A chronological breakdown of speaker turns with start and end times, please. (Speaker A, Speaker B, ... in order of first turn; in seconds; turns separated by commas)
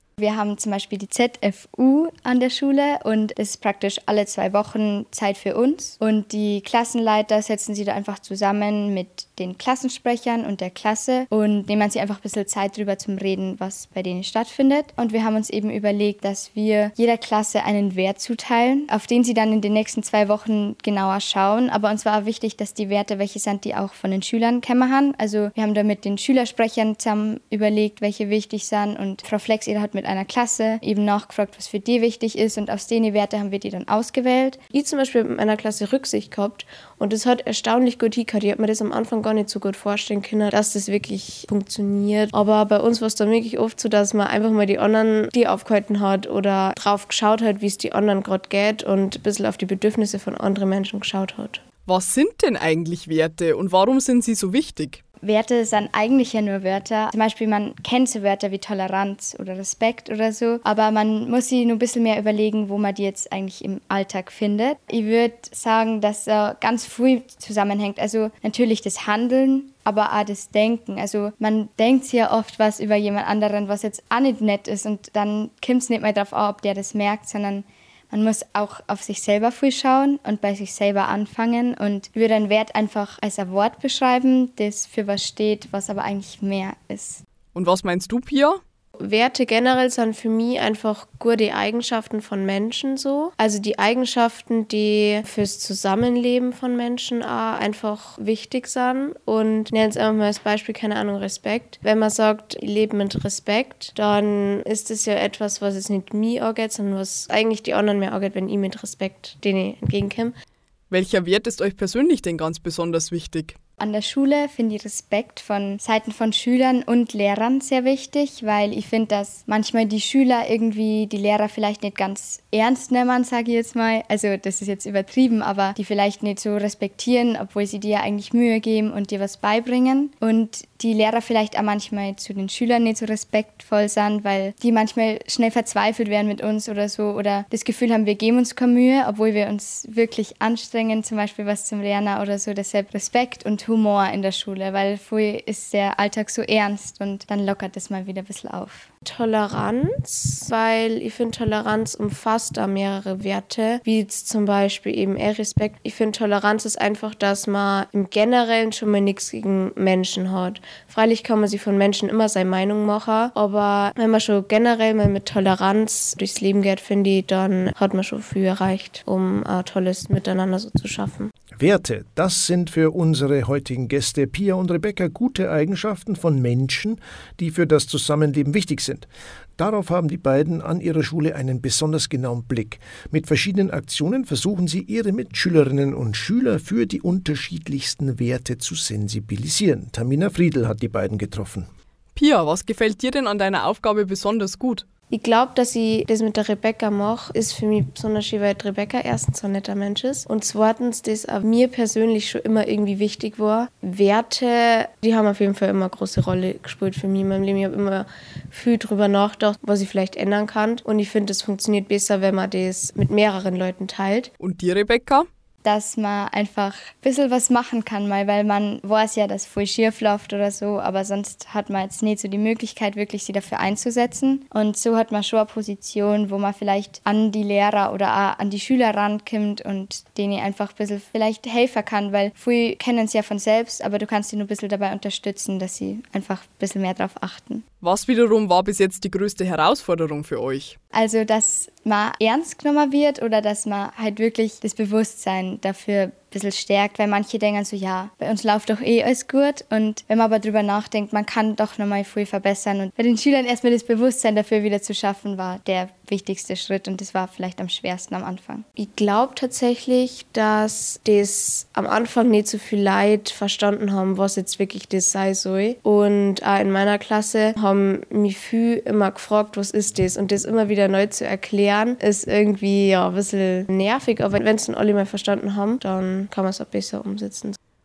Speaker A: 0.2-34.6, Speaker B: 34.7-51.6, Speaker C: 51.9-55.0, Speaker A: 55.2-87.2, Speaker C: 87.5-88.6, Speaker B: 89.0-110.3, Speaker C: 110.9-113.5, Speaker A: 113.8-148.9, Speaker B: 149.0-171.3, Speaker D: 171.6-179.1, Speaker D: 179.6-191.7, Speaker C: 192.1-194.8, Speaker B: 195.1-214.3, Speaker C: 214.4-215.3, Speaker A: 215.6-237.6, Speaker C: 237.8-240.8, Speaker A: 240.9-258.6, Speaker B: 258.8-277.6